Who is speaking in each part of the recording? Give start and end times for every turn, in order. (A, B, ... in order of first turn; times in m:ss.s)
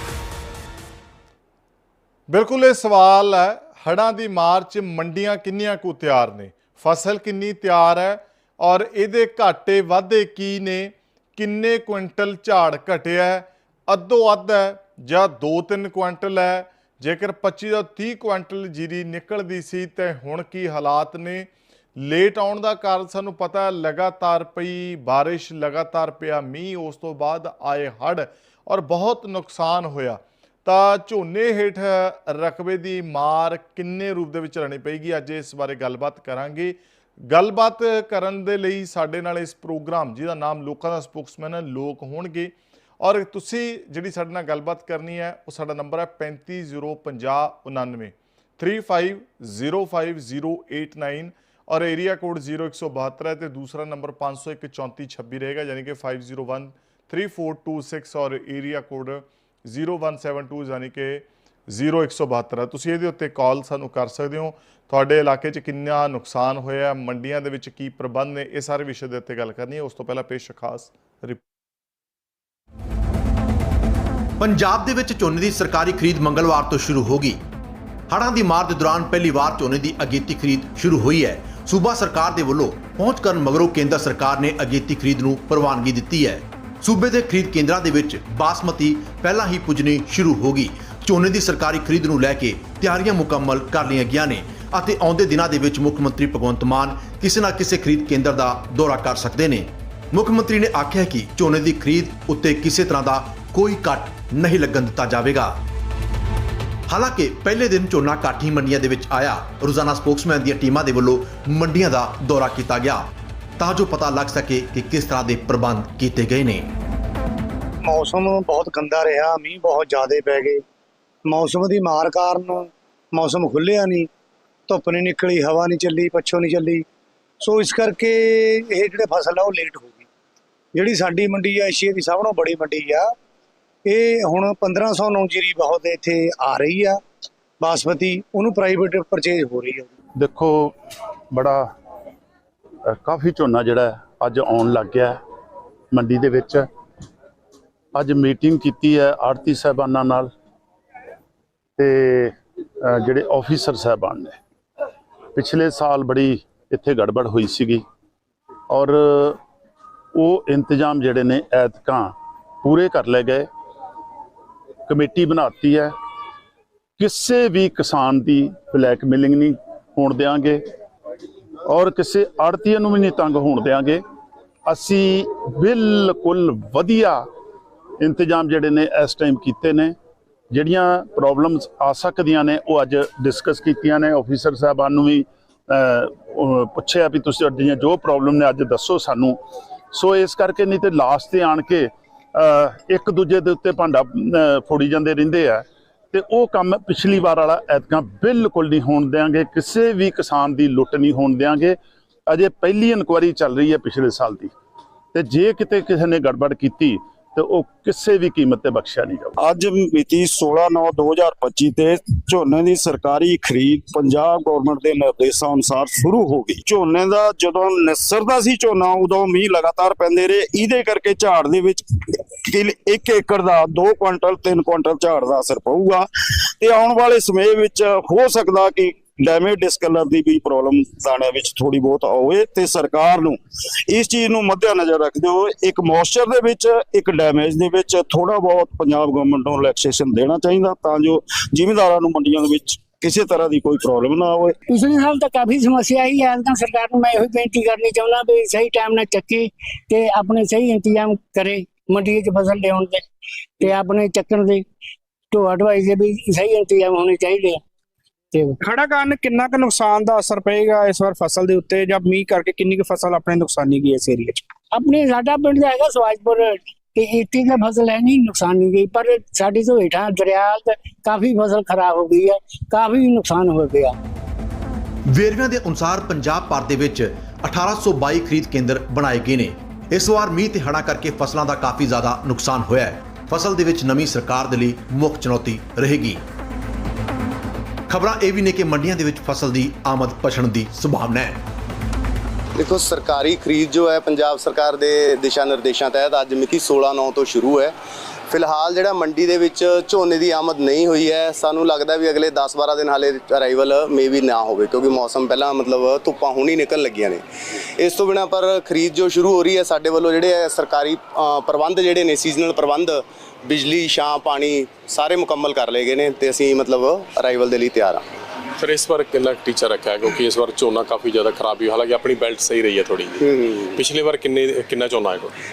0:02.3-0:36.8 A
0:37.3-1:11.4 A
1:14.4-1:17.4 B
1:18.1-1:45.6 B
1:46.9-1:56.7 B
1:57.8-2:00.6 C
2:01.3-2:04.1 C
2:04.7-2:06.8 C
2:07.4-2:10.1 C
2:10.8-2:13.1 C
2:13.9-2:17.0 C
2:17.6-2:19.9 C
2:20.2-2:20.8 D
2:21.3-2:21.7 D
2:22.9-2:25.2 D
2:25.9-2:26.7 D
2:27.9-2:30.3 D
2:31.8-2:34.4 D
2:35.3-2:37.8 D
2:38.7-2:39.4 D
2:40.1-2:43.5 D
2:44.9-2:45.9 D
2:47.0-2:50.6 D
2:51.7-2:54.0 D
2:54.7-2:57.3 D
2:58.0-3:00.0 D
3:00.5-3:24.5 D
3:25.1-3:29.4 D
3:29.4-3:46.1 E
3:46.6-3:53.4 E
3:53.9-4:04.6 E
4:04.7-4:13.0 F
4:13.6-4:14.6 F
4:15.3-4:17.6 F
4:18.6-4:24.4 G
4:24.7-4:34.0 F
4:35.1-4:46.2 B
4:47.9-4:51.4 B
4:52.6-4:57.8 H
4:58.3-5:07.2 H
5:07.8-5:18.0 H
5:18.6-5:23.2 I
5:23.2-5:23.8 H
5:23.8-5:25.3 I